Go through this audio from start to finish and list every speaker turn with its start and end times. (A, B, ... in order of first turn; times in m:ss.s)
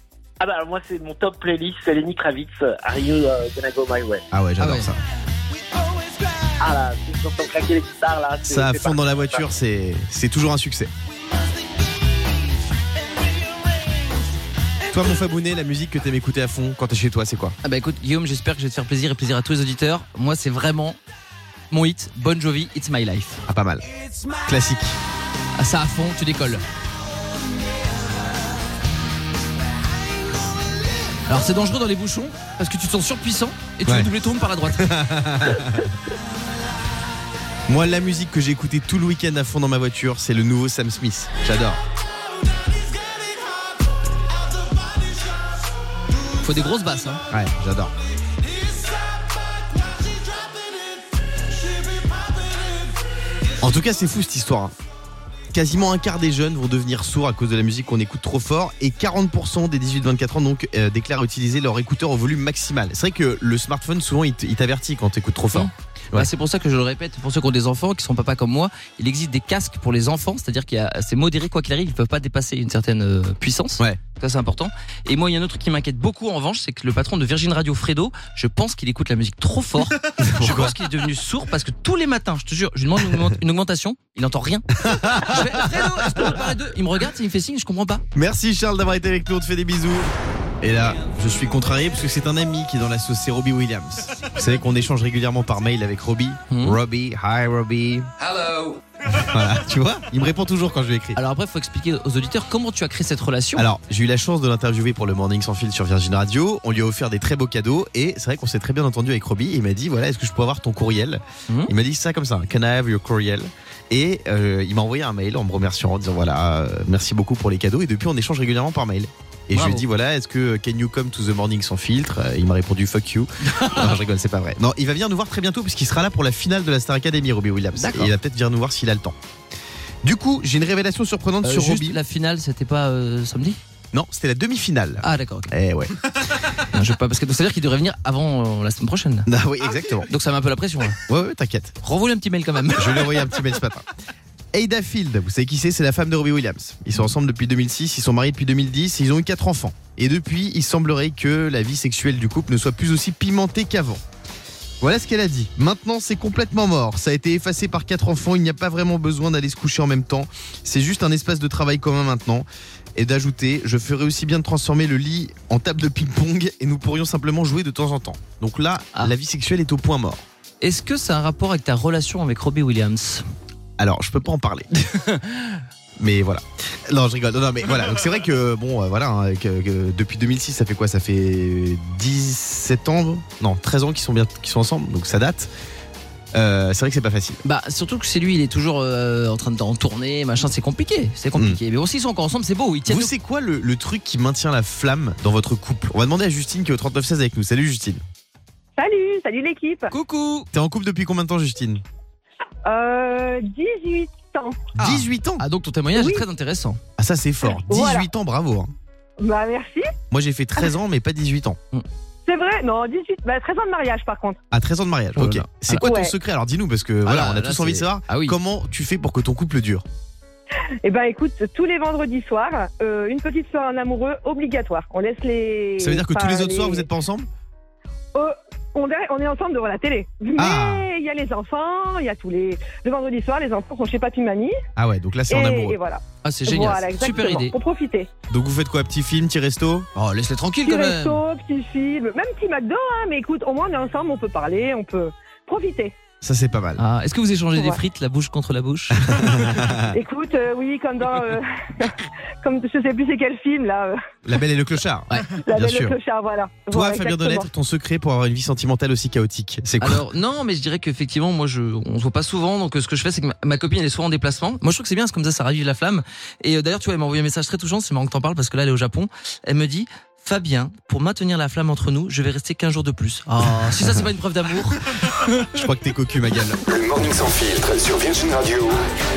0:00.4-0:04.2 A
0:04.3-0:05.0 B
0:04.6-0:04.9 C
0:06.6-0:09.0 A
0:08.5-0:10.9 B
0:14.9-0:17.6 B
0:17.6-0:21.0 C
0:21.7-0:23.4 C
0:23.5-0:23.8 B
0:24.4-0:25.0 B
0:25.5-0:26.6 C
0:31.3-0:35.0 C
0:34.6-0:35.9 B
0:37.7-0:41.8 B
0:46.4-0:47.2 C
0:47.3-0:47.9 B
0:53.6-0:54.7 B
0:55.5-1:06.3 B
1:05.5-1:28.0 C
1:20.2-1:20.7 B
1:24.8-1:25.7 B
1:28.1-1:38.1 B
1:36.5-1:36.8 C
1:39.1-1:41.2 B
1:41.2-1:43.7 C
1:43.6-2:09.1 B
1:59.5-1:59.8 C
2:03.6-2:04.0 C
2:07.7-2:08.1 C
2:10.0-2:12.0 B
2:11.4-2:13.6 C
2:13.9-2:16.1 B
2:15.0-2:15.5 C
2:16.7-2:19.3 C
2:19.3-2:20.1 B
2:20.1-2:21.0 C
2:21.1-2:21.7 B
2:21.8-2:23.3 C
2:22.7-2:23.8 B
2:24.5-2:34.0 B
2:34.8-2:50.2 B
2:50.6-2:53.2 C
2:53.8-2:54.7 B
2:55.0-2:55.5 C
2:56.0-3:05.5 B
3:06.3-3:07.4 B
3:07.4-3:13.1 C
3:11.3-3:11.6 B
3:12.8-3:18.0 B
3:18.8-3:19.9 D
3:19.9-3:20.5 C
3:20.5-3:21.8 B
3:22.6-3:24.6 D
3:24.8-3:25.4 B
3:24.8-3:26.8 C
3:26.0-3:26.2 D
3:27.0-3:28.7 B
3:27.5-3:28.1 D
3:29.2-3:29.8 D
3:30.1-3:31.6 B
3:32.2-3:34.4 D
3:34.5-3:39.8 B
3:35.2-3:35.8 C
3:35.8-3:36.1 D
3:37.0-3:38.4 C
3:40.8-3:46.8 D
3:45.8-3:47.3 B
3:48.1-3:54.5 D
3:50.4-3:50.9 B
3:54.8-3:55.8 B
3:55.3-3:58.1 D
3:56.2-3:57.5 C
3:58.3-3:59.9 B
3:59.9-4:01.2 C
4:00.6-4:05.9 D
4:06.2-4:06.8 B
4:06.8-4:09.2 C
4:07.5-4:07.8 D
4:09.0-4:09.9 B
4:09.9-4:14.0 D
4:14.2-4:16.0 B
4:15.1-4:15.4 C
4:15.4-4:17.5 D
4:16.7-4:20.0 B
4:19.8-4:35.4 C
4:35.5-4:36.6 B
4:36.6-4:38.8 E